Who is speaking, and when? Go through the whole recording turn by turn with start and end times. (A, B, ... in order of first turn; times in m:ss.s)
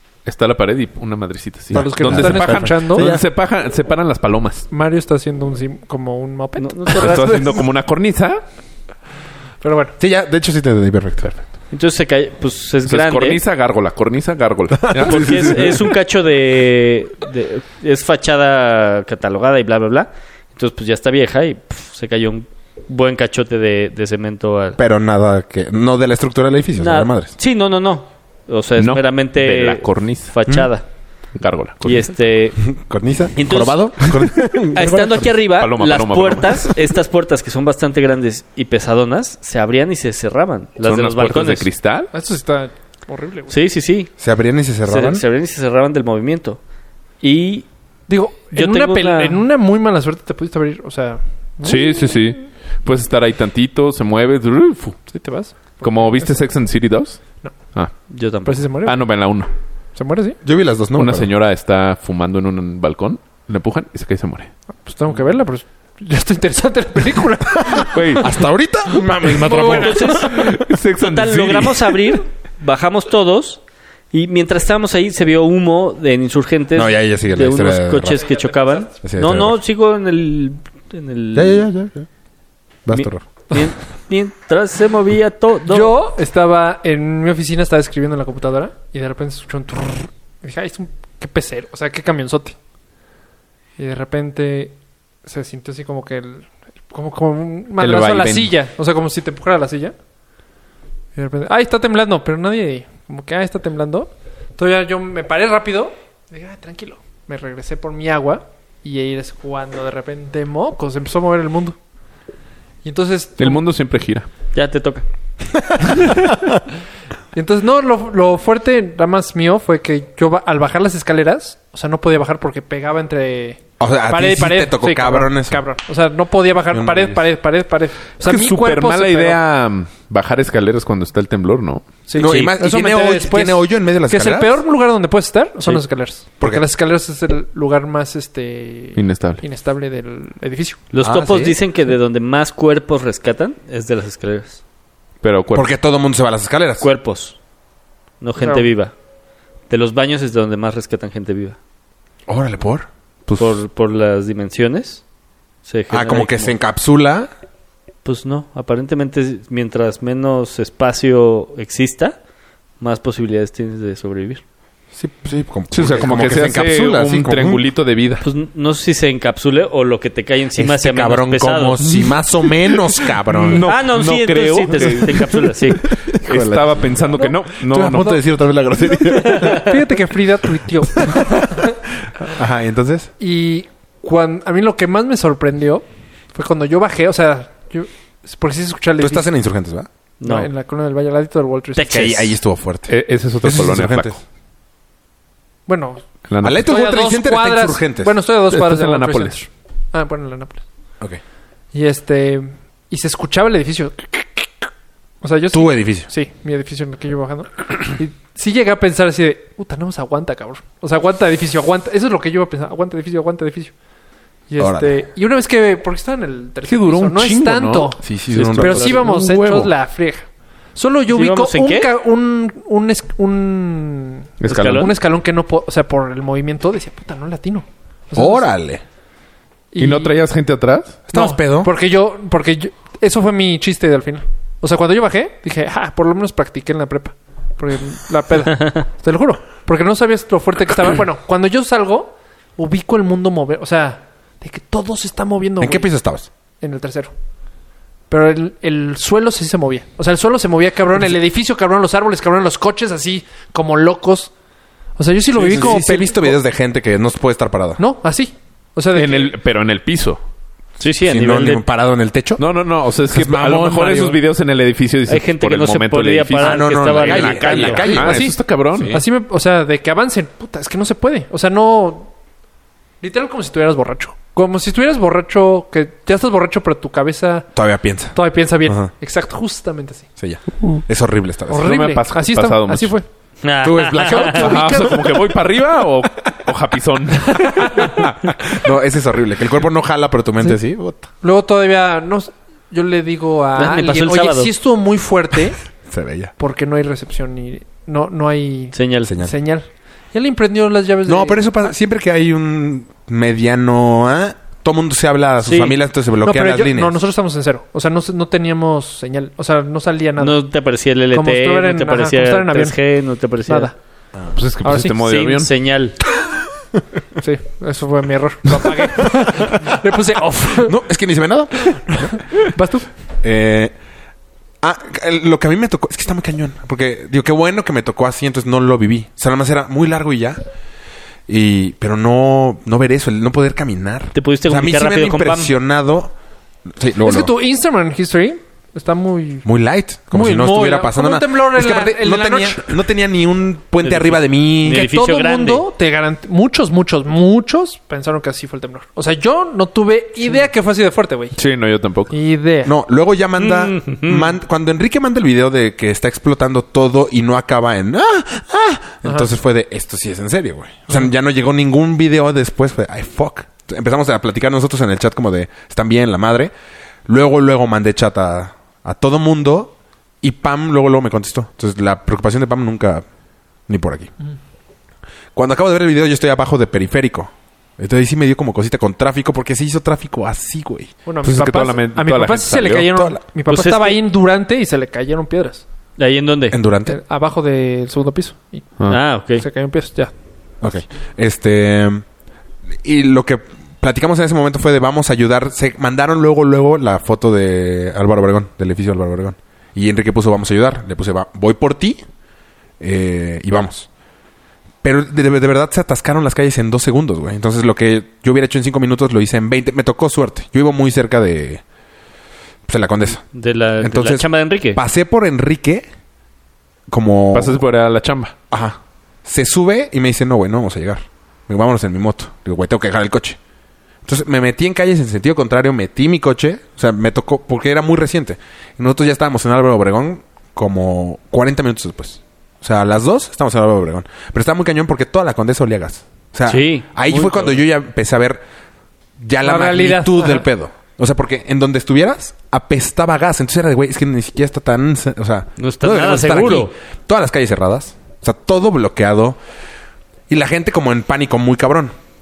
0:00.3-0:04.7 A
0:01.7-0:03.2 B
0:01.7-0:03.1 C
0:04.7-0:07.6 C
0:06.6-0:07.6 D
0:06.9-0:08.4 A
0:09.6-0:10.0 C
0:10.0-0:11.3 B
0:11.7-0:13.4 D
0:12.9-0:15.9 A
0:14.8-0:15.7 B
0:15.0-0:24.8 D
0:24.8-0:27.3 B
0:26.8-0:30.9 D
0:28.8-0:30.3 A
0:31.4-0:32.1 A
0:31.8-0:32.6 D
0:32.6-0:35.3 B
0:33.4-0:34.1 D
0:34.7-0:41.7 D
0:35.6-0:36.7 A
0:40.8-0:42.1 A
0:42.1-0:43.5 C
0:43.5-0:44.1 D
0:44.2-0:45.2 B
0:44.9-0:46.6 D
0:47.2-0:47.7 D
0:48.1-0:52.1 C
0:48.5-0:49.4 D
0:51.6-0:55.0 A
0:55.1-0:56.5 C
0:55.8-0:57.2 A
0:58.1-0:58.7 D
0:58.4-0:59.0 C
0:58.8-0:59.5 A
1:00.0-1:00.4 C
1:00.4-1:01.3 B
1:01.0-1:04.5 A
1:04.8-1:08.3 C
1:07.7-1:10.2 B
1:07.9-1:08.4 A
1:08.9-1:10.3 C
1:09.4-1:13.6 D
1:10.1-1:12.2 A
1:14.1-1:21.7 D
1:16.8-1:18.2 B
1:18.1-1:18.9 C
1:19.0-1:19.6 B
1:21.3-1:22.1 B
1:22.9-1:23.2 B
1:22.9-1:26.0 D
1:25.7-1:32.6 C
1:33.8-1:34.8 C
1:35.3-1:40.0 C
1:37.8-1:38.5 A
1:41.2-1:51.8 C
1:52.8-1:53.6 C
1:53.4-1:54.3 A
1:54.5-1:55.0 D
1:55.7-1:56.0 B
1:57.3-2:09.4 C
2:03.8-2:05.6 B
2:06.7-2:07.3 B
2:08.2-2:11.8 A
2:12.1-2:20.8 C
2:12.2-2:14.6 B
2:12.2-2:12.5 D
2:19.0-2:19.4 A
2:20.9-2:24.6 D
2:21.0-2:21.6 B
2:25.2-2:25.7 A
2:25.5-2:26.9 B
2:26.8-2:27.4 D
2:28.2-2:28.9 D
2:28.4-2:28.7 C
2:29.7-2:31.6 D
2:32.3-2:33.6 B
2:33.4-2:35.0 D
2:35.6-2:36.6 D
2:35.9-2:37.3 B
2:38.0-2:42.2 D
2:42.8-2:44.4 D
2:44.9-2:47.6 B
2:45.7-2:48.2 A
2:48.2-2:51.8 D
2:50.6-2:53.7 B
2:51.8-2:52.2 A
2:52.9-2:58.2 A
2:53.6-2:55.9 D
2:55.9-2:57.0 B
2:57.7-2:59.8 B
2:57.9-2:58.2 C
2:58.8-3:01.8 C
2:59.2-2:59.7 D
3:00.9-3:01.6 B
3:02.2-3:03.1 B
3:03.2-3:09.3 C
3:09.0-3:09.9 B
3:10.2-3:10.5 D
3:10.2-3:12.2 C
3:11.8-3:12.3 D
3:11.9-3:14.2 B
3:12.9-3:14.2 A
3:15.7-3:16.0 C
3:16.3-3:16.7 A
3:16.4-3:18.1 B
3:16.6-3:20.6 C
3:18.5-3:19.4 A
3:21.7-3:24.5 C
3:25.2-3:33.7 C
3:25.5-3:26.1 B
3:34.5-3:48.5 C
3:34.6-3:35.0 B
3:36.6-3:39.7 A
3:38.0-3:39.0 B
3:41.1-3:41.9 D
3:44.4-3:44.9 A
3:44.4-3:44.9 D
3:48.2-3:48.8 B
3:49.7-3:50.1 C
3:49.8-3:51.0 A
3:51.1-3:51.7 B
3:51.1-4:05.8 C
4:05.6-4:06.3 B
4:06.6-4:07.1 C
4:08.1-4:14.3 C
4:15.0-4:16.4 C
4:15.4-4:17.8 B
4:17.8-4:19.3 C
4:18.9-4:20.2 A
4:20.8-4:21.6 D
4:21.0-4:22.4 B
4:22.4-4:29.0 A
4:23.1-4:24.2 B
4:25.1-4:27.9 D
4:26.4-4:29.0 B
4:28.0-4:28.3 C
4:28.9-4:32.1 C
4:33.0-4:37.5 C
4:37.6-4:38.9 B
4:38.1-4:40.1 C
4:40.2-4:41.7 B
4:41.5-4:43.1 C
4:41.6-4:42.9 A
4:43.4-4:44.5 D
4:43.6-4:45.0 B
4:44.1-4:45.2 C
4:44.3-4:48.1 A
4:47.4-4:47.9 C
4:48.4-4:51.1 B
4:51.2-4:55.6 C
4:53.6-4:54.5 D
4:55.9-4:56.3 B
4:56.4-5:01.6 C
4:58.7-4:59.1 D
4:59.1-4:59.4 B
5:01.1-5:07.0 B
5:05.4-5:05.8 D
5:06.2-5:10.4 C
5:10.2-5:13.7 D
5:11.1-5:12.8 C
5:13.5-5:13.7 C
5:14.3-5:15.5 A
5:14.6-5:15.0 C
5:15.0-5:16.0 D
5:17.2-5:20.8 C
5:18.9-5:19.7 B
5:20.6-5:21.7 B
5:21.7-5:22.9 C
5:23.2-5:23.7 B
5:24.6-5:30.4 B
5:31.3-5:36.1 B
5:34.1-5:35.5 D
5:36.7-5:37.3 B
5:37.0-5:39.4 C
5:39.4-5:44.9 B
5:40.1-5:42.7 C
5:44.6-5:45.6 D
5:44.7-5:51.4 C
5:51.4-5:52.2 A
5:52.1-5:52.7 C
5:52.6-6:06.5 B
5:53.4-5:54.3 D
6:07.1-6:13.0 B
6:13.7-6:14.1 B
6:15.4-6:20.9 B
6:21.1-6:25.6 C
6:21.2-6:22.9 A
6:23.5-6:24.0 D
6:26.0-6:26.6 D
6:26.5-6:27.0 B
6:26.9-6:28.8 C
6:28.9-6:29.5 D
6:29.4-6:30.1 C
6:30.6-6:32.0 B
6:32.8-6:42.0 B
6:42.8-6:43.9 B
6:44.8-6:51.6 B
6:52.7-6:53.2 B
6:53.3-6:54.8 D
6:53.8-6:55.9 B
6:56.9-6:57.6 B
6:57.3-6:58.3 A
6:58.5-7:03.4 B
7:04.0-7:18.4 B
7:16.5-7:17.6 D
7:19.2-7:29.4 B
7:19.4-7:20.5 C
7:25.6-7:26.7 D
7:30.3-7:31.9 B